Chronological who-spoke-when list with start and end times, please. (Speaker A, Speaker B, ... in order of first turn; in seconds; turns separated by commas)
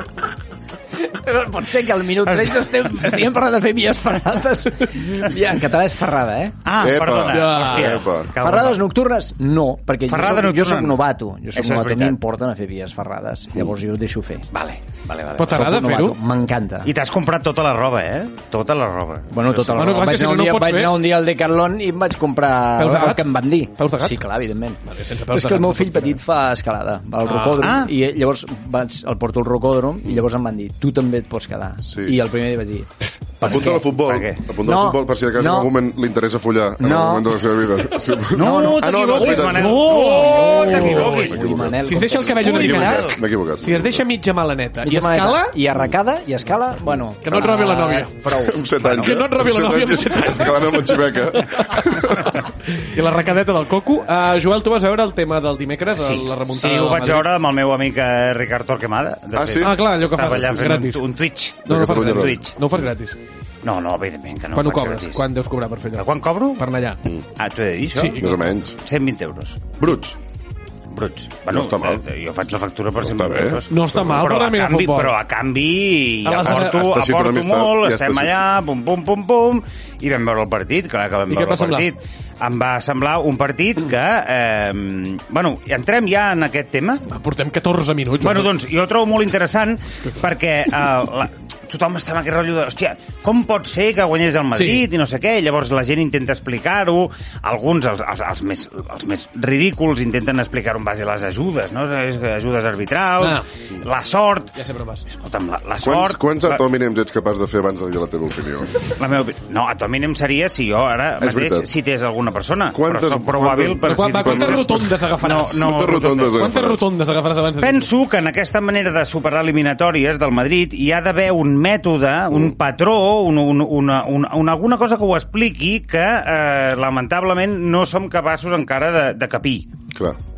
Speaker A: 1.0-6.5, Speaker B: 2.2-2.7, Speaker B: 6.6-8.8, Speaker C: 6.8-8.3, Speaker D: 7.3-8.0, Speaker A: 8.4-14.4, Speaker B: 10.1-12.2, Speaker B: 14.5-15.5, Speaker D: 15.3-16.2, Speaker A: 15.4-16.9, Speaker B: 16.8-19.8, Speaker A: 19.3-24.8, Speaker D: 19.6-21.1, Speaker D: 22.8-24.2, Speaker D: 24.9-26.2, Speaker A: 25.3-33.9, Speaker D: 27.3-27.7, Speaker B: 27.5-27.9, Speaker C: 31.8-32.2, Speaker C: 33.4-44.0, Speaker B: 33.4-34.4, Speaker A: 34.6-35.7, Speaker A: 36.8-37.3, Speaker B: 38.3-41.4, Speaker A: 38.4-39.4, Speaker D: 39.1-41.3, Speaker A: 40.6-42.7, Speaker D: 41.8-45.5, Speaker B: 42.4-43.2, Speaker A: 44.8-49.1, Speaker D: 47.2-48.2, Speaker C: 48.4-52.3, Speaker D: 48.8-57.3, Speaker B: 56.0-62.5, Speaker C: 59.4-60.8, Speaker D: 59.6-61.1, Speaker C: 61.6-62.4, Speaker D: 61.6-63.2, Speaker B: 63.6-65.2, Speaker D: 64.5-67.0, Speaker B: 65.9-66.6, Speaker B: 67.4-69.6, Speaker D: 68.0-68.4, Speaker C: 68.1-68.8, Speaker C: 69.8-70.2, Speaker B: 70.9-87.0, Speaker C: 71.5-72.0, Speaker C: 73.0-74.2, Speaker D: 73.7-75.2, Speaker D: 76.2-76.8, Speaker C: 76.4-78.4, Speaker D: 81.3-81.9, Speaker D: 87.1-88.5, Speaker B: 88.2-104.5, Speaker D: 94.5-94.9, Speaker D: 103.2-103.4, Speaker D: 104.5-105.0, Speaker B: 105.1-106.6, Speaker C: 105.8-108.8, Speaker B: 109.0-116.4, Speaker C: 111.2-111.7, Speaker C: 112.7-116.8, Speaker D: 113.8-117.9, Speaker B: 117.6-129.7, Speaker C: 129.9-130.2